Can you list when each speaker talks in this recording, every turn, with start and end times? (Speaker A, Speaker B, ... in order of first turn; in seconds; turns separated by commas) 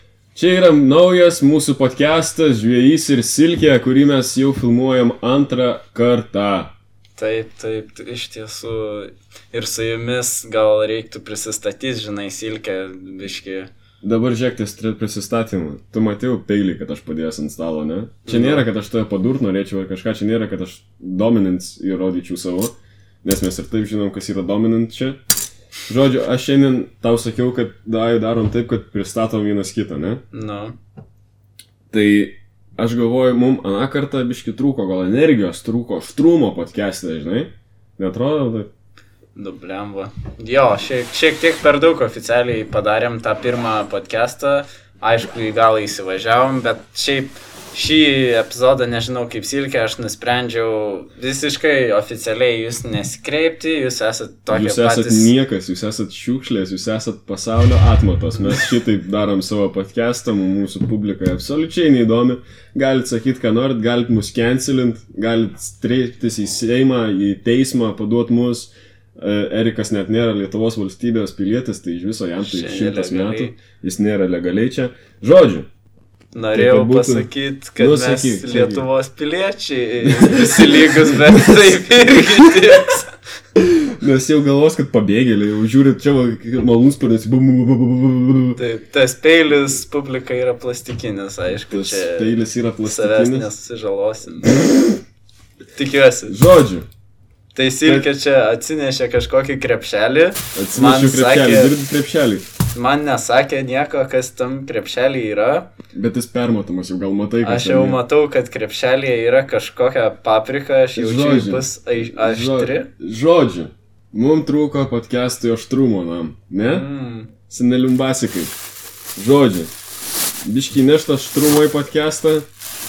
Speaker A: 0.3-6.7, Speaker B: 7.2-13.7, Speaker A: 14.0-25.2, Speaker B: 18.2-18.6, Speaker A: 25.9-30.2, Speaker B: 30.3-30.7, Speaker A: 31.9-38.7, Speaker B: 39.4-55.3, Speaker A: 54.5-75.7, Speaker B: 72.4-73.5, Speaker B: 76.3-83.1, Speaker A: 76.5-78.8, Speaker A: 80.0-82.8, Speaker A: 83.6-88.6, Speaker B: 88.5-94.7, Speaker A: 91.7-93.5, Speaker B: 95.8-96.3, Speaker A: 96.2-96.9, Speaker B: 97.5-101.8, Speaker A: 100.5-102.4, Speaker B: 102.7-105.7, Speaker A: 105.9-108.0, Speaker B: 107.4-112.9, Speaker A: 110.9-116.9, Speaker B: 116.6-117.3, Speaker A: 117.5-118.5, Speaker A: 119.2-119.7, Speaker A: 120.4-122.5